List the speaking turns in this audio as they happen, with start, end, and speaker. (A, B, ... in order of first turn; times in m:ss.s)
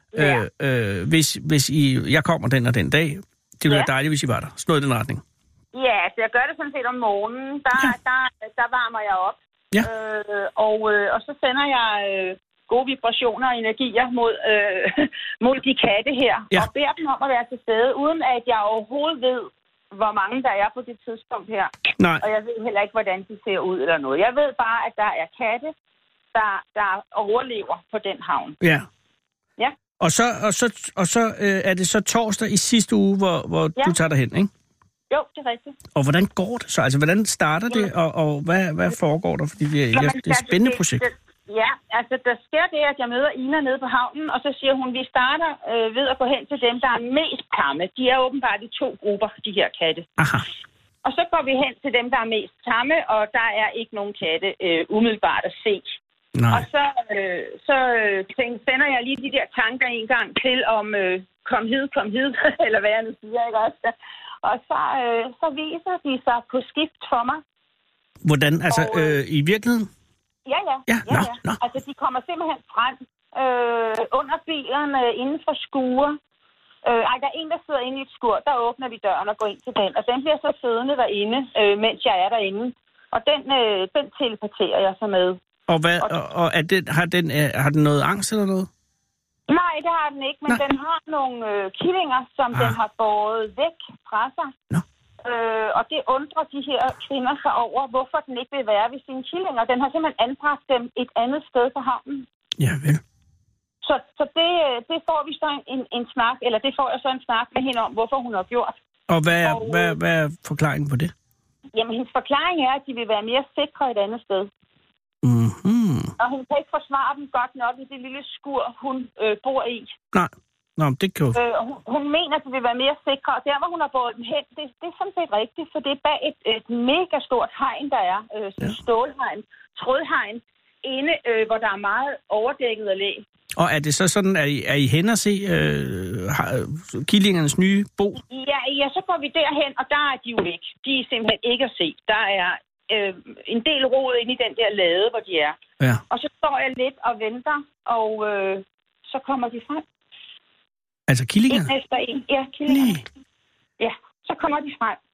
0:00.2-0:00.4 A
0:00.2-0:05.2 B
0:05.7-0:25.7 A
0:22.0-0:22.2 B
0:26.3-0:28.6 A
0:28.6-0:28.9 B
0:30.0-0:34.5 B
0:35.1-0:35.8 A
0:36.0-0:41.0 B
0:39.9-0:50.1 A
0:50.2-0:50.4 B
0:51.0-0:56.0 A
0:56.4-0:56.7 B
0:56.5-1:07.4 A
1:08.2-1:09.9 B
1:08.7-1:09.2 A
1:10.5-1:16.2 A
1:10.9-1:11.6 B
1:16.8-1:25.4 A
1:25.7-1:28.7 B
1:29.5-1:34.5 A
1:35.2-1:42.3 A
1:42.6-1:43.0 B
1:43.8-1:48.8 A
1:49.1-1:51.1 B
1:49.4-1:50.0 A
1:51.7-1:54.5 A
1:55.2-1:56.1 B
1:56.2-1:59.9 A
2:00.1-2:01.4 B
2:01.3-2:13.2 A
2:13.6-2:18.2 B
2:18.3-2:25.6 A
2:26.1-2:29.8 A
2:31.1-2:31.7 B
2:31.5-2:32.9 A
2:32.7-2:33.0 B
2:33.8-2:35.0 A